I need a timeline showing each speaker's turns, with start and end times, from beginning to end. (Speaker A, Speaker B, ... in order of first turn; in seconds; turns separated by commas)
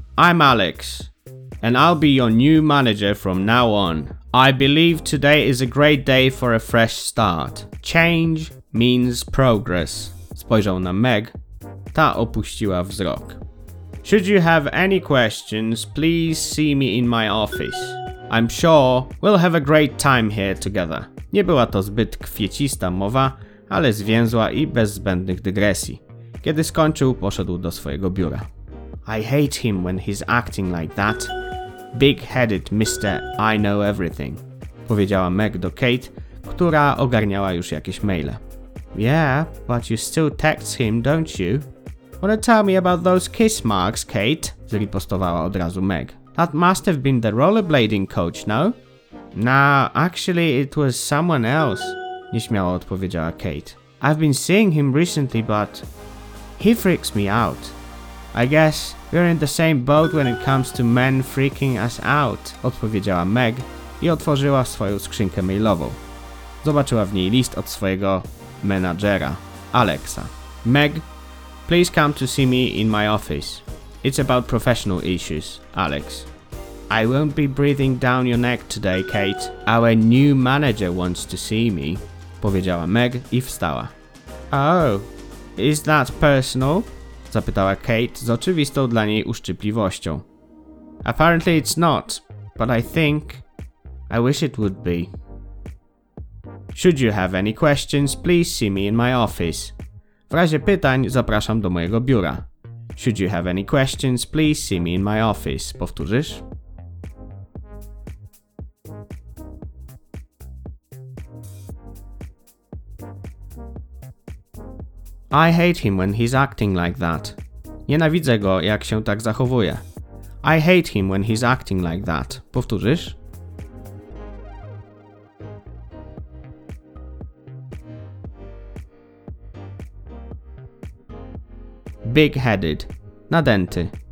Speaker A: 0.2-11.3, Speaker A: 11.9-13.4, Speaker A: 14.0-28.5, Speaker A: 29.0-31.3, Speaker A: 31.9-38.4, Speaker A: 38.9-41.7, Speaker A: 42.2-48.8, Speaker A: 49.3-55.9, Speaker A: 56.5-57.8, Speaker A: 58.3-66.0, Speaker A: 66.6-71.0, Speaker A: 71.7-76.3, Speaker A: 76.9-83.9, Speaker A: 84.5-90.2, Speaker A: 91.0-93.4, Speaker A: 94.1-95.1, Speaker A: 96.7-99.8, Speaker A: 100.3-106.4, Speaker A: 115.3-119.8, Speaker A: 120.4-123.2, Speaker A: 132.0-133.9